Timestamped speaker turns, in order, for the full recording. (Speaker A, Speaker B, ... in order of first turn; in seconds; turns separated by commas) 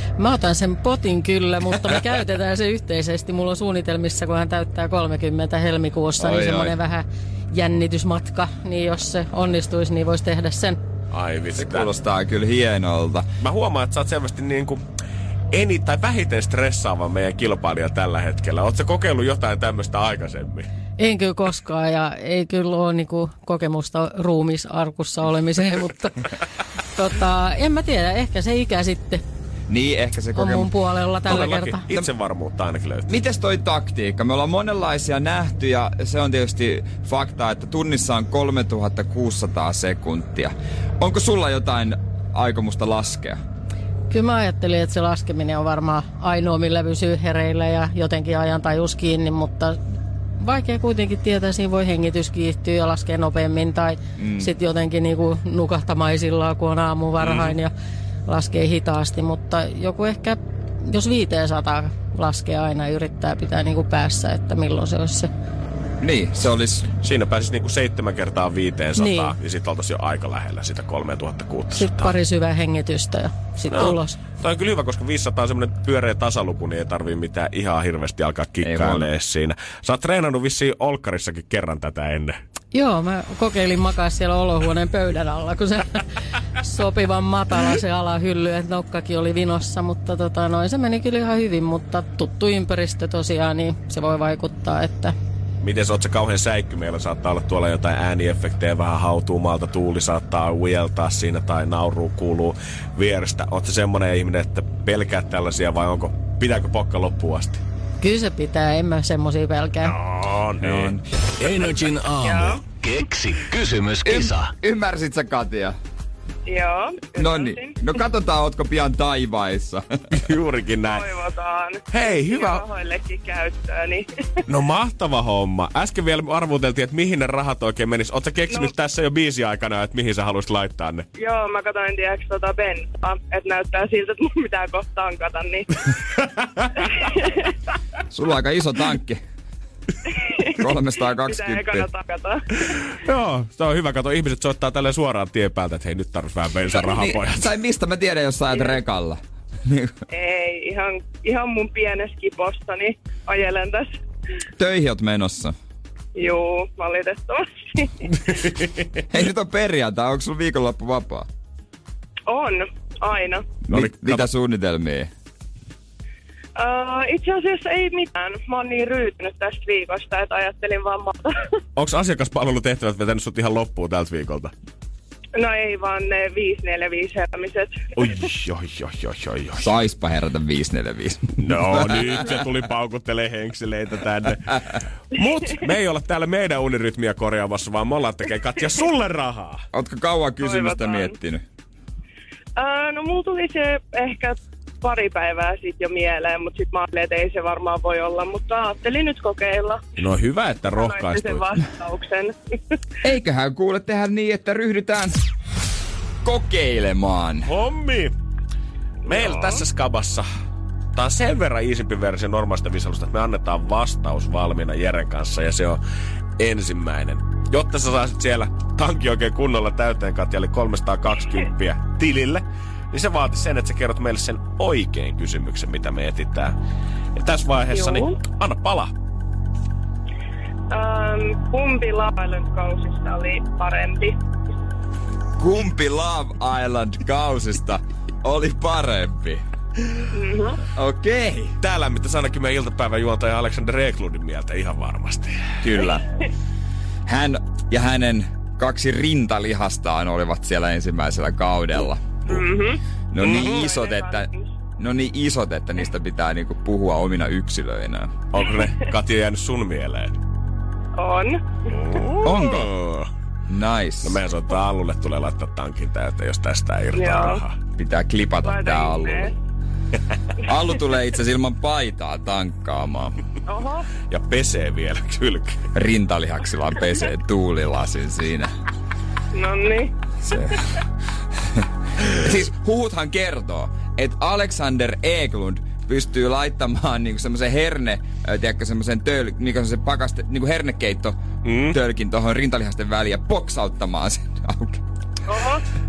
Speaker A: 0.2-10.8, Speaker B: 6.2-6.7, Speaker C: 11.1-11.9, Speaker B: 11.6-13.2, Speaker C: 13.4-14.8, Speaker C: 15.5-20.7, Speaker A: 21.0-26.3, Speaker A: 26.9-29.2, Speaker B: 29.7-30.7, Speaker A: 30.4-31.8, Speaker C: 31.2-33.2, Speaker B: 31.3-32.1, Speaker B: 33.1-43.4, Speaker A: 44.1-49.8, Speaker A: 50.4-57.7, Speaker B: 54.2-54.5, Speaker C: 57.2-57.5, Speaker A: 58.3-65.3, Speaker B: 66.0-66.9, Speaker C: 67.0-72.1, Speaker A: 69.0-69.3, Speaker A: 71.7-74.2, Speaker C: 73.7-82.4, Speaker B: 78.6-79.1, Speaker A: 82.7-95.1, Speaker C: 95.6-107.6, Speaker A: 108.0-110.0, Speaker C: 109.8-110.9, Speaker B: 110.6-111.0, Speaker D: 111.4-114.5, Speaker E: 112.2-112.6, Speaker B: 114.0-115.8, Speaker E: 116.5-117.8, Speaker B: 117.2-119.8, Speaker C: 120.1-121.1, Speaker E: 120.8-124.1, Speaker C: 121.9-122.6, Speaker C: 124.5-131.1, Speaker E: 131.2-135.9, Speaker C: 136.2-136.9, Speaker E: 136.8-137.5, Speaker B: 138.1-139.2, Speaker E: 140.1-142.8, Speaker B: 140.6-141.9, Speaker C: 142.7-147.5, Speaker B: 146.7-149.9, Speaker E: 150.1-153.9, Speaker B: 154.6-155.5, Speaker E: 156.2-158.2, Speaker B: 159.1-161.3, Speaker E: 162.3-163.4, Speaker B: 163.7-165.1, Speaker C: 163.7-164.3, Speaker E: 166.6-171.5, Speaker C: 171.8-174.5, Speaker E: 175.3-178.1, Speaker C: 177.9-179.7, Speaker B: 179.6-182.4, Speaker C: 181.4-189.6, Speaker B: 189.7-191.4, Speaker E: 190.4-191.1, Speaker E: 192.6-199.8, Speaker C: 200.0-201.5, Speaker E: 200.7-202.6, Speaker B: 203.0-205.1, Speaker B: 206.2-207.5, Speaker C: 207.5-208.1, Speaker C: 209.1-210.3, Speaker C: 210.9-215.8, Speaker C: 216.4-226.5, Speaker C: 227.2-228.9, Speaker E: 227.7-228.1, Speaker E: 230.7-234.2, Speaker B: 235.4-239.4, Speaker E: 240.1-240.6, Speaker B: 240.8-241.5, Speaker C: 241.6-245.5, Speaker B: 245.6-246.1, Speaker B: 247.1-252.1, Speaker E: 252.3-254.4, Speaker B: 253.1-258.1, Speaker C: 253.2-253.7, Speaker C: 258.3-260.2, Speaker E: 261.0-261.4, Speaker C: 261.7-263.1, Speaker B: 262.2-262.7, Speaker B: 263.5-264.2, Speaker C: 264.0-267.6, Speaker E: 267.0-267.4, Speaker B: 267.8-269.3, Speaker E: 268.4-269.3, Speaker B: 270.4-273.2, Speaker E: 273.5-273.9, Speaker C: 274.1-275.6, Speaker B: 275.7-278.5, Speaker E: 279.3-279.9, Speaker B: 280.2-280.8, Speaker B: 281.4-291.2, Speaker C: 291.4-291.8, Speaker B: 291.7-294.8, Speaker E: 295.3-295.6